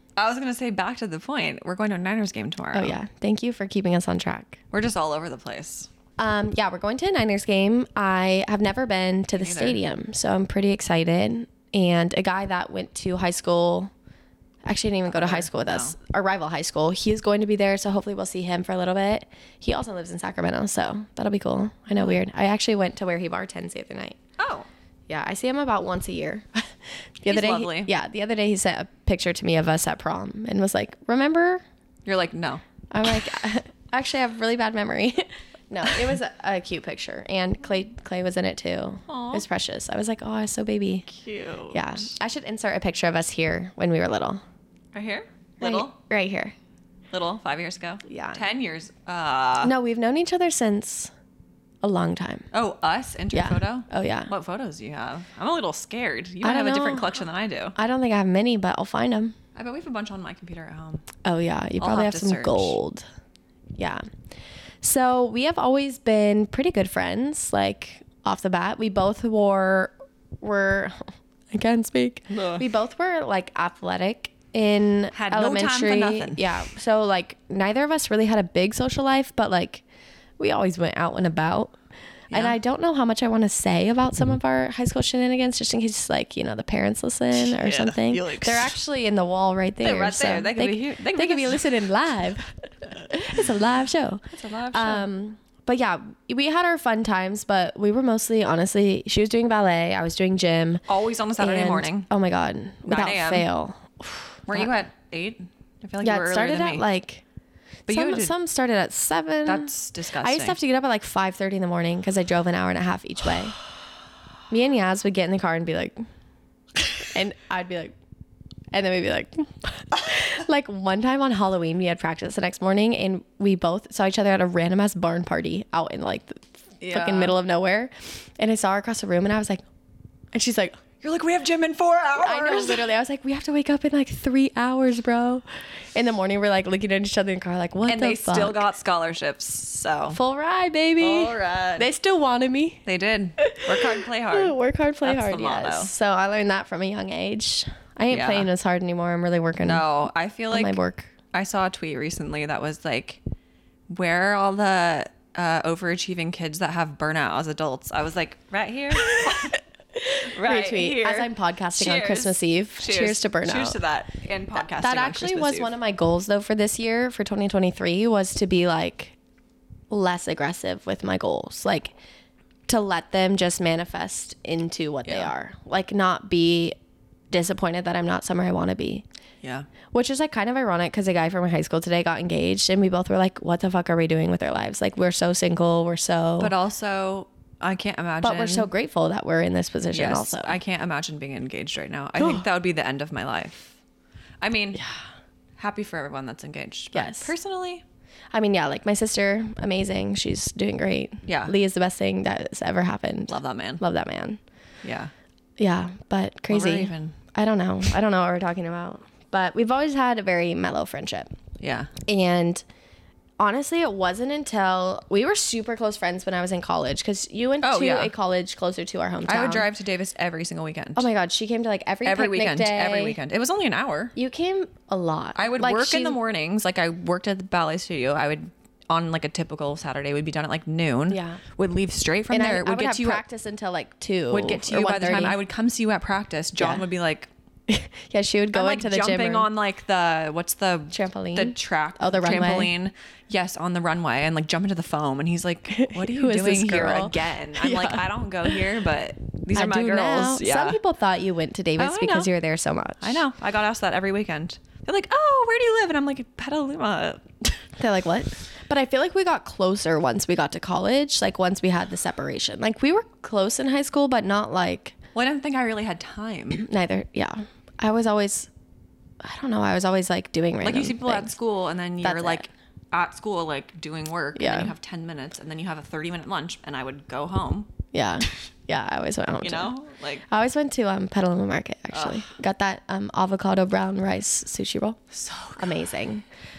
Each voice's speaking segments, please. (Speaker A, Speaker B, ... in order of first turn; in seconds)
Speaker A: 0.1-3.0, 4.7-5.9, 9.4-9.8, 15.1-16.0, 24.4-24.7, 27.2-27.9, 32.0-32.6, 39.1-39.4, 41.1-42.0, 44.9-45.9, 47.1-49.7, 52.5-57.8, 59.5-61.0, 61.8-62.8, 72.3-72.7, 75.1-76.5, 82.3-82.6, 87.3-88.8, 89.8-91.8, 94.3-95.1, 100.9-102.1, 102.8-103.5, 104.5-106.8, 107.9-108.3, 109.5-110.6, 126.8-127.4, 131.0-132.9, 137.8-140.2, 141.0-141.9, 142.8-145.9, 148.1-148.5, 149.6-150.8, 151.3-153.2, 153.9-159.6, 160.3-165.7, 175.1-175.3, 179.4-179.7, 186.4-188.7, 189.9-193.8, 194.4-194.8, 195.6-197.8, 201.2-201.5, 203.3-203.8, 204.8-205.1, 206.5-207.2, 211.6-211.9, 217.6-218.1, 219.2-221.1, 222.0-224.1, 225.3-233.2, 234.3-237.3, 238.5-250.8, 251.8-252.3, 253.0-257.6, 265.1-266.6, 270.6-277.7, 279.4-280.2, 281.9-282.3, 285.1-285.9
Speaker B: 2.7-4.6, 6.2-13.9, 14.7-24.2, 25.1-26.7, 27.2-31.6, 32.9-41.1, 41.7-44.4, 45.6-46.5, 48.0-48.4, 49.6-51.1, 51.8-52.5, 53.3-54.3, 56.4-57.2, 57.7-59.3, 61.2-63.0, 63.8-64.0, 64.8-79.8, 80.4-81.8, 82.3-100.8, 101.4-104.8, 106.0-107.2, 107.9-113.6, 114.5-116.0, 117.0-117.9, 118.7-129.6, 130.3-130.8, 132.2-135.4, 135.9-138.7, 140.1-142.8, 143.4-149.9, 150.5-151.1, 159.1-163.8, 164.6-169.1, 169.9-171.9, 172.7-176.7, 177.3-179.0, 179.9-186.5, 188.2-190.6, 196.9-197.3, 198.3-204.4, 205.6-211.3, 212.1-212.6, 213.4-219.7, 220.9-223.2, 224.1-226.2, 231.1-231.4, 232.3-235.4, 236.6-236.8, 237.7-239.5, 240.9-242.7, 245.7-248.6, 249.5-253.2, 257.8-264.9, 266.6-268.5, 269.2-271.3, 272.0-272.4, 274.3-274.7, 277.9-279.7, 280.3-285.0, 285.6-286.2